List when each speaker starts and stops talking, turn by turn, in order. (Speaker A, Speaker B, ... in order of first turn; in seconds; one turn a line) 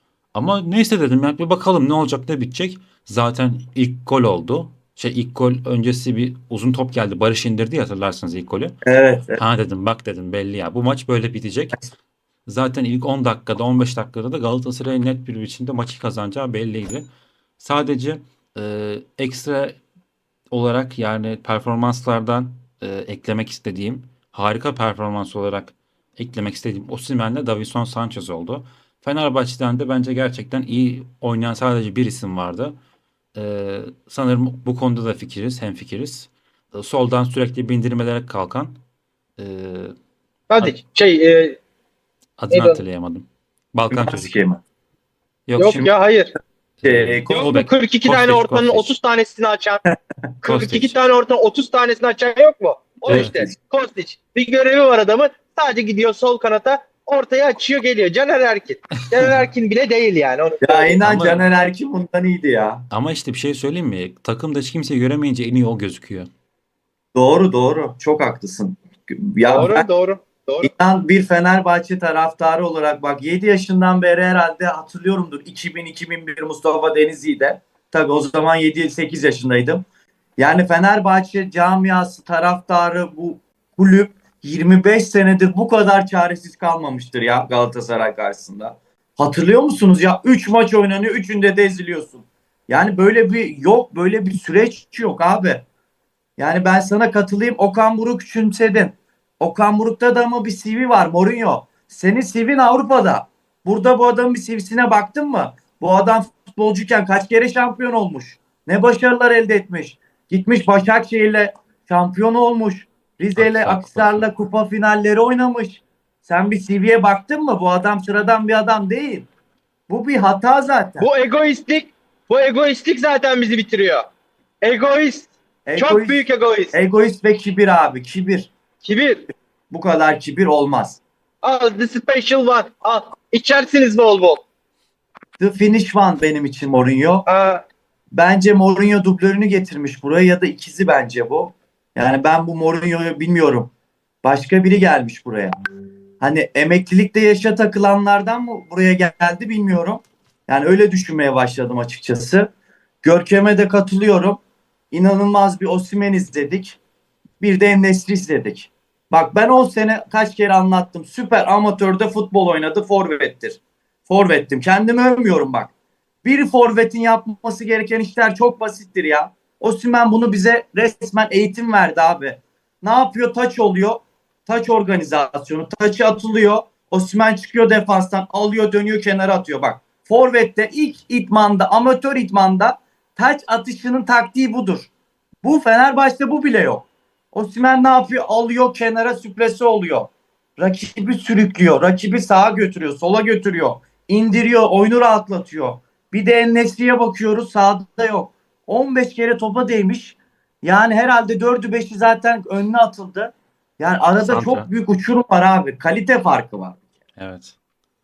Speaker A: 0.3-8.7
Speaker B: 8.8-9.4
Speaker A: 9.3-11.8
Speaker A: 12.4-17.1
Speaker A: 17.6-19.8
Speaker A: 20.5-32.7
Speaker A: 33.3-38.8
Speaker A: 39.4-39.9
Speaker C: 40.5-41.6
Speaker A: 42.4-44.3
Speaker C: 42.5-42.8
Speaker B: 43.9-44.6
Speaker A: 45.5-45.9
Speaker C: 45.6-46.3
Speaker A: 46.8-48.9
Speaker B: 46.8-47.5
Speaker C: 47.3-49.8
Speaker C: 50.4-61.0
Speaker A: 50.4-51.0
Speaker B: 53.0-53.5
Speaker A: 53.1-53.4
Speaker B: 60.6-62.9
Speaker A: 61.0-61.5
Speaker A: 62.9-66.3
Speaker B: 67.1-69.8
Speaker C: 69.5-70.7
Speaker B: 70.6-79.8
Speaker B: 80.4-95.6
Speaker B: 96.4-119.3
Speaker A: 113.3-114.3
Speaker B: 119.9-121.1
Speaker C: 121.0-124.0
Speaker C: 124.6-126.7
Speaker B: 125.7-128.5
Speaker C: 128.8-129.3
Speaker B: 129.7-131.0
Speaker C: 131.4-134.4
Speaker B: 135.4-137.2
Speaker C: 137.2-137.6
Speaker B: 138.1-143.7
Speaker B: 144.2-145.6
Speaker B: 146.2-152.5
Speaker B: 153.0-154.4
Speaker B: 154.9-156.8
Speaker B: 157.4-165.7
Speaker B: 166.2-184.9
Speaker B: 185.4-206.8
Speaker A: 204.2-204.7
Speaker A: 207.2-207.6